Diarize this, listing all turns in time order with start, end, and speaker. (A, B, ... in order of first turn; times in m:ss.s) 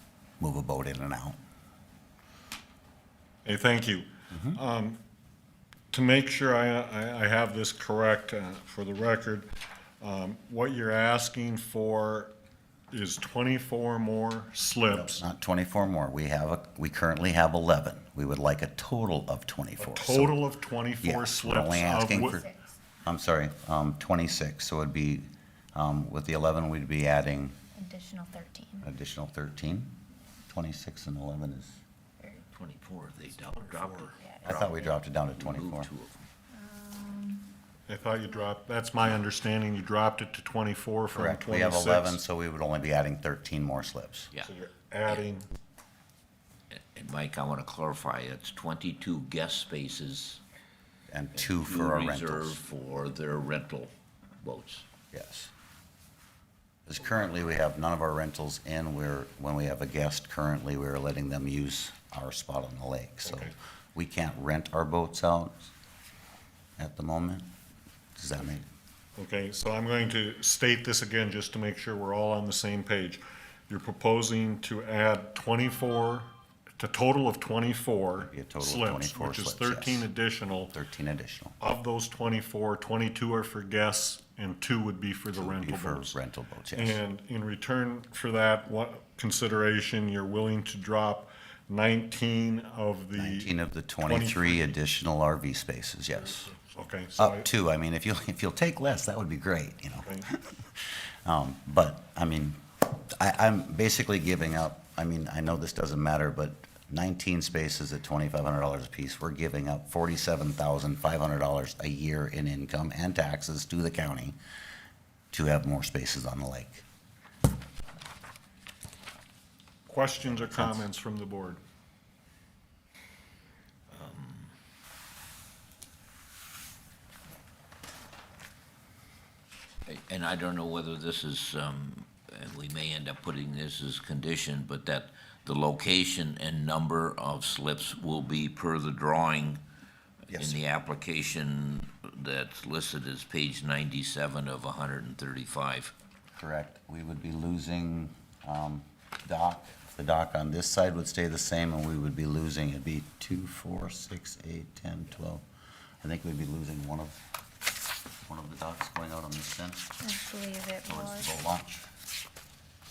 0:00.4-0:01.4 A
0:03.4-0:05.0 B
0:05.9-0:12.3 B
0:12.9-0:15.2 B
0:14.9-0:20.4 A
0:19.8-0:22.4 B
0:21.0-0:22.5 A
0:21.9-0:22.7 C
0:23.0-0:27.6 A
0:27.7-0:28.9 C
0:28.8-0:31.8 A
0:32.5-0:36.2 D
0:33.6-0:34.1 B
0:34.2-0:34.7 C
0:34.4-0:35.9 A
0:36.5-0:37.5 C
0:37.9-0:42.2 B
0:41.1-0:44.3 A
0:44.4-0:45.5 B
0:46.7-0:50.4 D
0:51.1-0:52.6 A
0:51.3-0:54.8 D
0:55.1-0:55.5 A
0:56.9-1:05.7 A
1:03.2-1:03.5 B
1:06.8-1:07.5 A
1:08.2-1:08.6 A
1:09.2-1:20.7 B
1:18.2-1:20.0 A
1:20.7-1:21.6 A
1:21.6-1:26.2 B
1:25.3-1:27.0 A
1:26.7-1:34.7 B
1:33.2-1:36.5 A
1:36.5-1:37.5 B
1:37.2-1:54.4 A
1:55.3-1:56.8 A
1:59.9-2:01.6 B
2:00.2-2:00.8 A
2:03.9-2:04.5 D
2:09.8-2:19.6 D
2:20.3-2:20.6 A
2:20.3-2:25.9 D
2:26.3-2:35.4 A
2:36.0-2:37.2 A
2:38.2-2:39.9 A
2:40.0-2:41.4 C
2:40.9-2:41.9 A